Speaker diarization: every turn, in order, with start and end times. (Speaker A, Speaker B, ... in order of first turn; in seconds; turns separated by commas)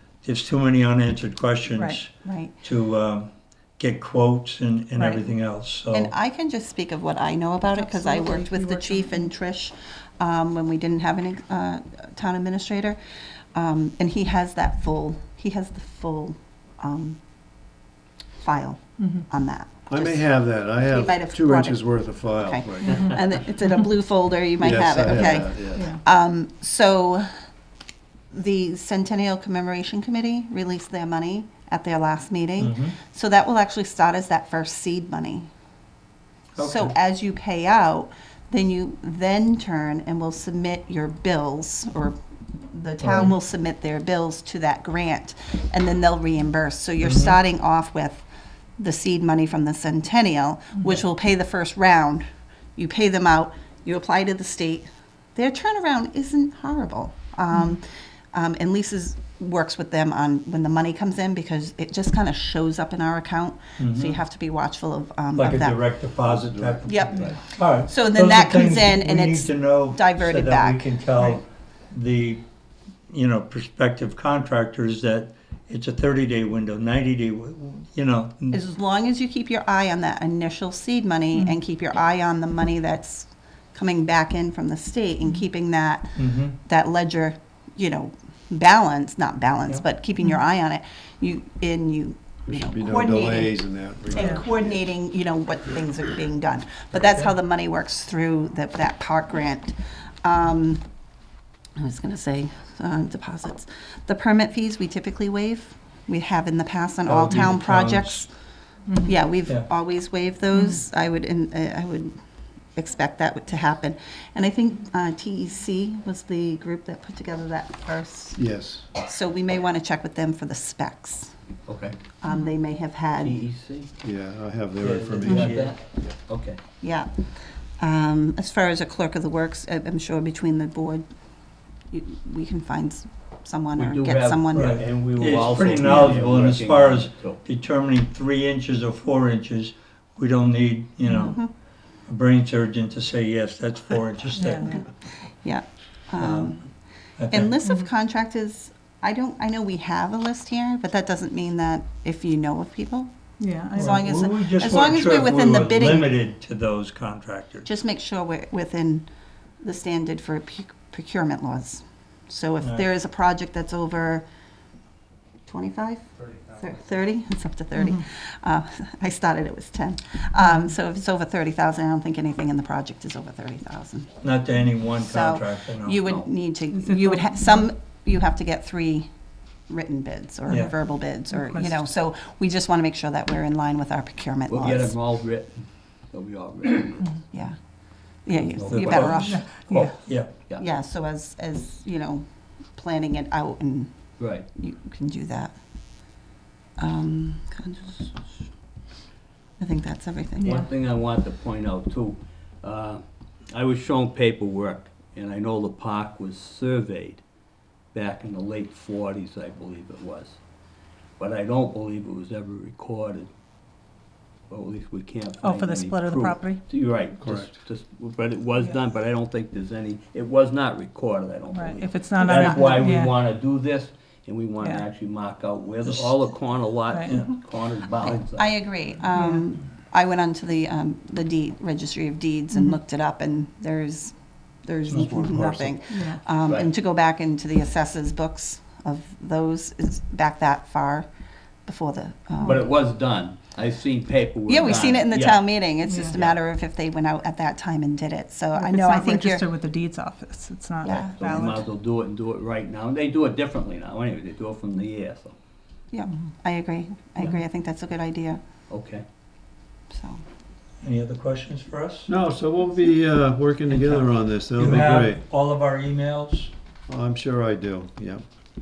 Speaker A: 0.2-6.1, Speaker B: 1.7-2.0, Speaker C: 2.2-2.6, Speaker B: 5.0-5.2, Speaker C: 5.9-13.0, Speaker B: 7.8-9.3, Speaker C: 13.5-17.2, Speaker C: 18.4-27.3, Speaker B: 19.0-19.3, Speaker D: 19.9-23.1, Speaker B: 22.9-23.1, Speaker D: 24.6-25.8, Speaker E: 25.3-25.9, Speaker B: 25.8-26.0, Speaker C: 28.3-35.5, Speaker A: 32.6-33.0, Speaker A: 36.5-36.9, Speaker C: 36.6-48.3, Speaker A: 43.0-43.4, Speaker A: 47.0-47.4, Speaker C: 48.8-65.8, Speaker A: 63.8-64.2, Speaker A: 65.4-72.5, Speaker D: 66.2-67.3, Speaker C: 66.8-70.9, Speaker A: 73.1-78.6, Speaker C: 78.5-100.8, Speaker A: 86.2-86.6, Speaker D: 92.5-94.8, Speaker C: 101.8-108.3, Speaker A: 107.1-108.2, Speaker B: 108.9-109.1, Speaker C: 109.0-112.2, Speaker C: 112.8-121.3, Speaker D: 118.4-118.9, Speaker E: 121.7-122.0, Speaker C: 122.2-123.4, Speaker B: 122.3-122.5, Speaker E: 123.1-123.9, Speaker D: 124.0-125.7, Speaker A: 124.8-125.8, Speaker E: 125.3-126.6, Speaker C: 126.8-127.1, Speaker C: 127.8-131.1, Speaker C: 131.9-134.8, Speaker E: 133.8-137.4, Speaker A: 134.5-141.4, Speaker B: 141.0-141.3, Speaker C: 141.2-141.5, Speaker A: 142.1-144.7, Speaker B: 144.4-144.8, Speaker C: 144.4-146.7, Speaker A: 146.2-146.5, Speaker A: 147.2-147.6, Speaker C: 147.3-153.1, Speaker B: 153.4-154.1, Speaker C: 153.7-156.1, Speaker A: 153.8-157.7, Speaker C: 157.7-159.1, Speaker C: 159.6-164.2, Speaker C: 165.5-166.1, Speaker A: 166.2-166.6, Speaker C: 166.6-174.2, Speaker B: 167.8-168.0, Speaker A: 174.2-176.2, Speaker C: 175.0-179.1, Speaker B: 176.7-177.7, Speaker C: 179.7-184.9, Speaker B: 180.5-181.7, Speaker E: 184.5-187.2, Speaker C: 187.3-187.6, Speaker C: 188.2-195.6, Speaker E: 188.3-190.6, Speaker A: 188.7-190.3, Speaker B: 189.2-189.9, Speaker E: 194.2-194.5, Speaker C: 196.8-198.3, Speaker C: 199.6-200.6, Speaker B: 200.4-200.7, Speaker E: 200.4-207.2, Speaker E: 207.9-210.4, Speaker E: 211.2-213.3, Speaker E: 214.5-228.6, Speaker B: 215.4-216.6, Speaker D: 217.2-217.5, Speaker B: 221.5-223.2, Speaker A: 225.8-226.2, Speaker B: 226.8-227.2, Speaker A: 227.1-227.3, Speaker C: 228.3-241.1, Speaker B: 229.0-229.4, Speaker A: 234.9-235.2, Speaker D: 234.9-235.8, Speaker B: 235.9-236.2, Speaker C: 241.7-242.7, Speaker E: 242.4-246.4, Speaker C: 244.5-249.5, Speaker B: 245.8-246.2, Speaker B: 248.6-251.7, Speaker C: 250.8-251.5, Speaker E: 250.9-255.3, Speaker C: 255.9-258.4, Speaker E: 258.7-259.0, Speaker C: 259.9-260.2, Speaker A: 260.8-262.1, Speaker D: 262.1-265.2, Speaker A: 263.7-266.5, Speaker D: 266.9-268.2